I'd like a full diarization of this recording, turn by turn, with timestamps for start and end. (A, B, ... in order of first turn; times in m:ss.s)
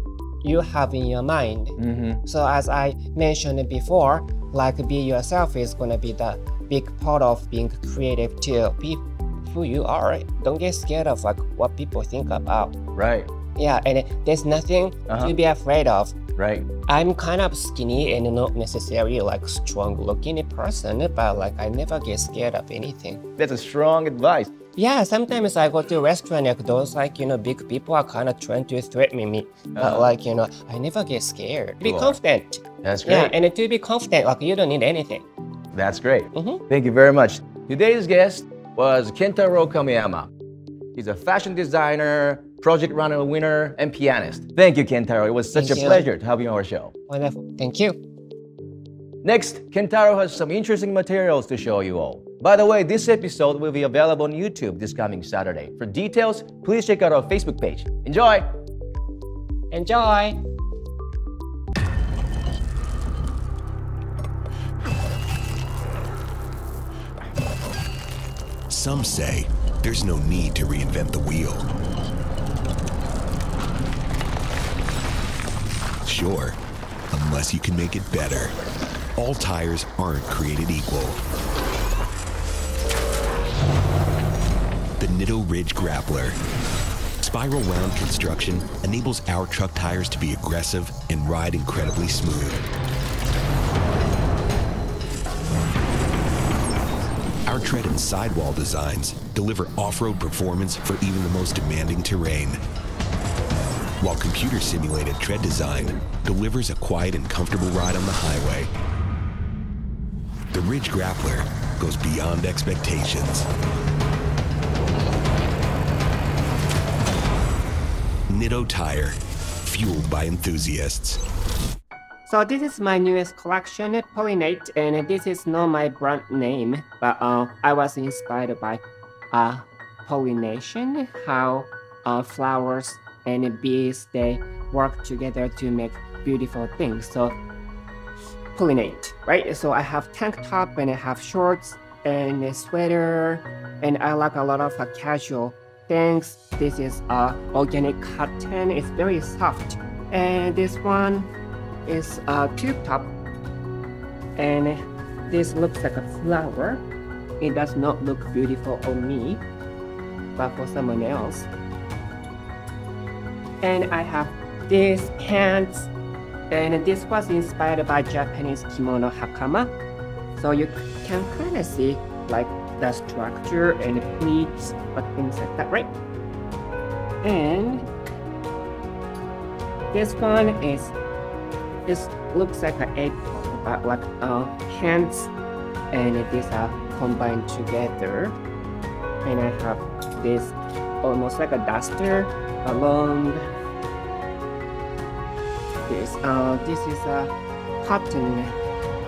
0:00.4-0:12.8 A
0:01.8-0:02.2 B
0:13.0-0:13.3 B
0:13.6-0:16.2 A
0:15.1-0:15.3 B
0:16.4-0:16.7 B
0:16.9-0:23.2 A
0:23.4-0:24.5 B
0:24.8-0:35.3 A
0:29.8-0:30.1 B
0:31.8-0:32.2 B
0:32.8-0:33.4 B
0:35.7-0:40.3 B
0:36.3-0:36.6 A
0:41.0-0:46.9 B
0:45.6-0:46.1 A
0:47.1-0:48.0 A
0:49.2-0:58.5 B
0:59.7-1:00.4 A
1:08.7-1:11.7 C
1:16.0-1:16.6 C
1:17.1-1:18.5 C
1:19.2-1:21.2 C
1:25.0-1:26.4 C
1:27.2-1:32.6 C
1:37.5-1:42.6 C
1:44.0-1:48.7 C
1:50.5-1:53.5 C
1:58.3-2:01.2 C
2:02.3-2:17.4 A
2:18.6-2:31.3 A
2:31.9-2:33.2 A
2:34.4-2:36.9 A
2:37.4-2:39.4 A
2:40.4-2:41.5 A
2:43.6-2:45.9 A
2:46.5-2:49.7 A
2:50.4-2:55.9 A
2:57.2-2:57.9 A
2:59.9-3:01.0 A
3:01.9-3:05.3 A
3:05.9-3:08.4 A
3:09.2-3:13.4 A
3:15.9-3:18.6 A